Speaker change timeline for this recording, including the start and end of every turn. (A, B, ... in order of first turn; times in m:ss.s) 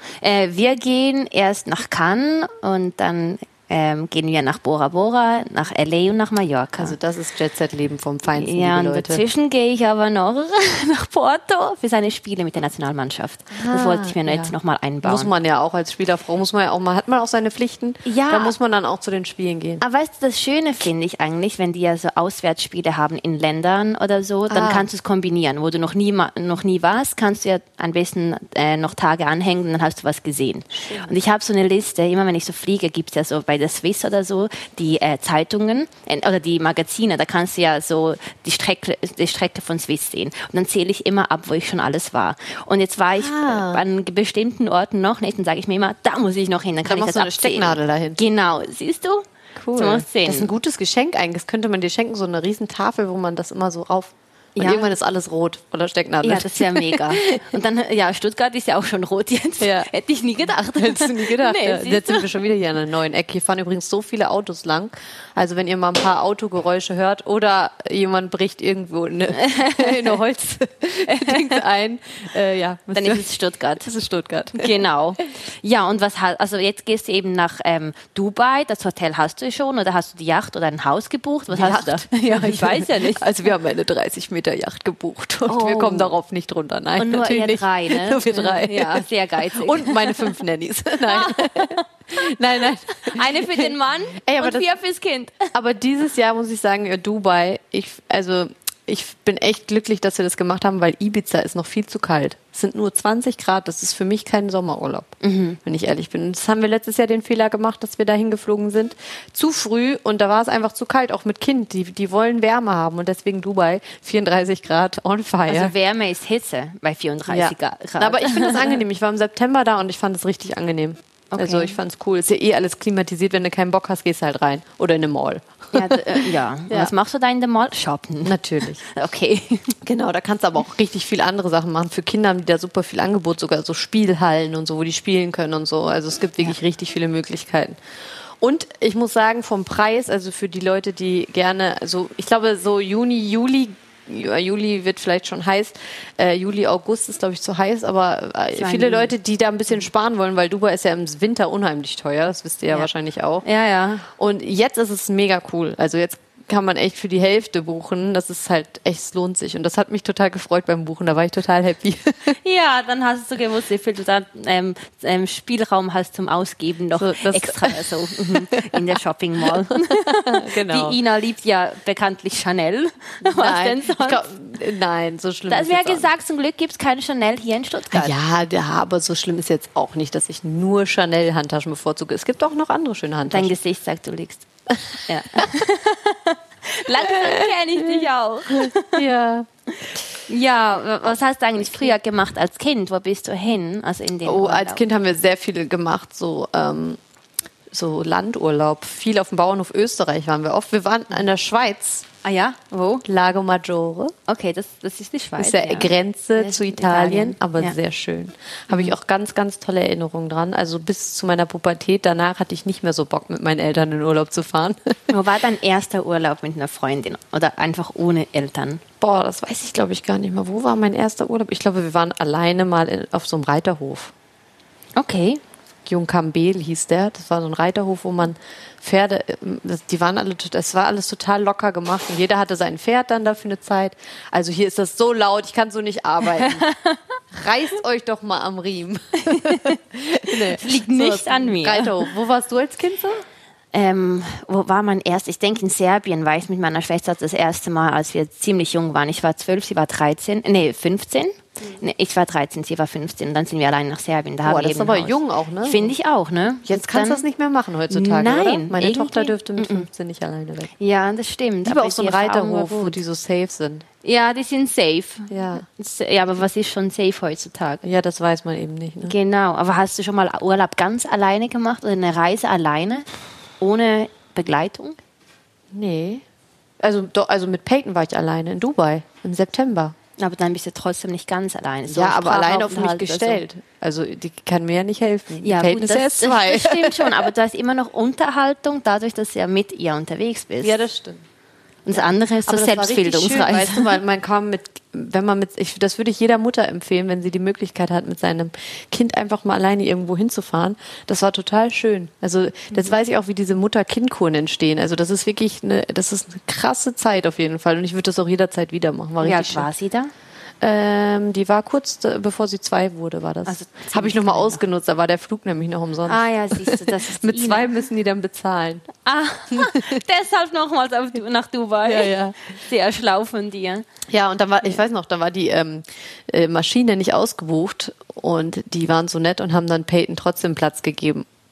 0:00.2-0:07.0 A
0:06.8-0:09.2 B
0:08.3-0:15.3 A
0:13.5-0:19.8 B
0:18.0-0:18.6 A
0:19.8-0:50.5 A
0:24.5-0:24.9 B
0:30.8-0:31.1 B
0:43.2-0:43.8 B
0:46.8-0:48.2 B
0:49.6-0:57.5 B
0:54.6-0:54.9 A
0:56.2-1:02.4 A
0:59.6-0:59.9 B
1:00.6-1:14.8 B
1:09.4-1:10.2 A
1:11.1-1:11.6 A
1:12.9-1:13.8 A
1:14.5-1:23.3 A
1:21.5-1:34.7 B
1:25.5-1:26.1 A
1:27.0-1:30.4 A
1:31.1-1:31.8 A
1:33.0-1:35.5 A
1:35.5-1:55.7 B
1:45.2-1:45.6 A
1:55.5-1:58.8 A
1:57.3-2:06.9 B
2:01.3-2:01.8 A
2:05.7-2:09.7 A
2:08.2-2:08.8 B
2:09.8-2:17.8 B
2:18.4-2:33.4 B
2:28.5-2:29.1 A
2:33.4-2:34.0 A
2:34.2-2:42.4 B
2:42.4-2:54.3 A
2:46.9-2:51.0 B
2:53.2-2:56.1 B
2:55.5-2:58.1 A
2:57.9-3:03.6 B
3:03.3-3:04.4 A
3:04.7-3:05.5 B
3:05.1-3:09.0 A
3:07.0-3:09.5 B
3:10.3-3:14.8 A
3:14.2-3:17.0 B
3:17.7-3:22.1 B
3:22.2-3:23.0 A
3:23.0-3:24.1 B
3:24.3-3:27.8 A
3:25.4-3:35.1 B
3:28.7-3:28.9 A
3:35.1-3:38.8 A
3:39.0-3:44.1 B
3:45.0-3:45.4 A
3:45.9-3:56.6 B
3:56.2-3:57.0 A
3:57.3-4:03.2 B
3:59.3-4:02.1 A
4:03.7-4:17.2 A
4:14.4-4:15.9 B
4:16.6-4:20.7 B
4:17.9-4:19.9 A
4:20.8-4:23.0 A
4:21.6-4:23.8 B
4:24.0-4:27.8 A
4:25.3-4:25.6 B
4:27.8-4:29.1 B
4:29.0-4:33.0 A
4:33.6-4:35.0 A
4:35.7-4:36.2 B
4:36.8-4:39.9 B
4:40.2-4:43.4 A
4:41.9-4:47.3 B
4:45.4-4:50.8 A
4:50.6-4:51.2 B
4:51.8-4:54.0 A
4:52.4-5:09.7 B
5:09.2-5:10.1 A
5:10.6-5:18.9 B
5:13.4-5:14.6 A
5:16.0-5:17.7 A
5:19.0-5:23.8 A
5:19.5-5:20.0 B
5:21.8-5:22.3 B
5:24.1-5:31.2 B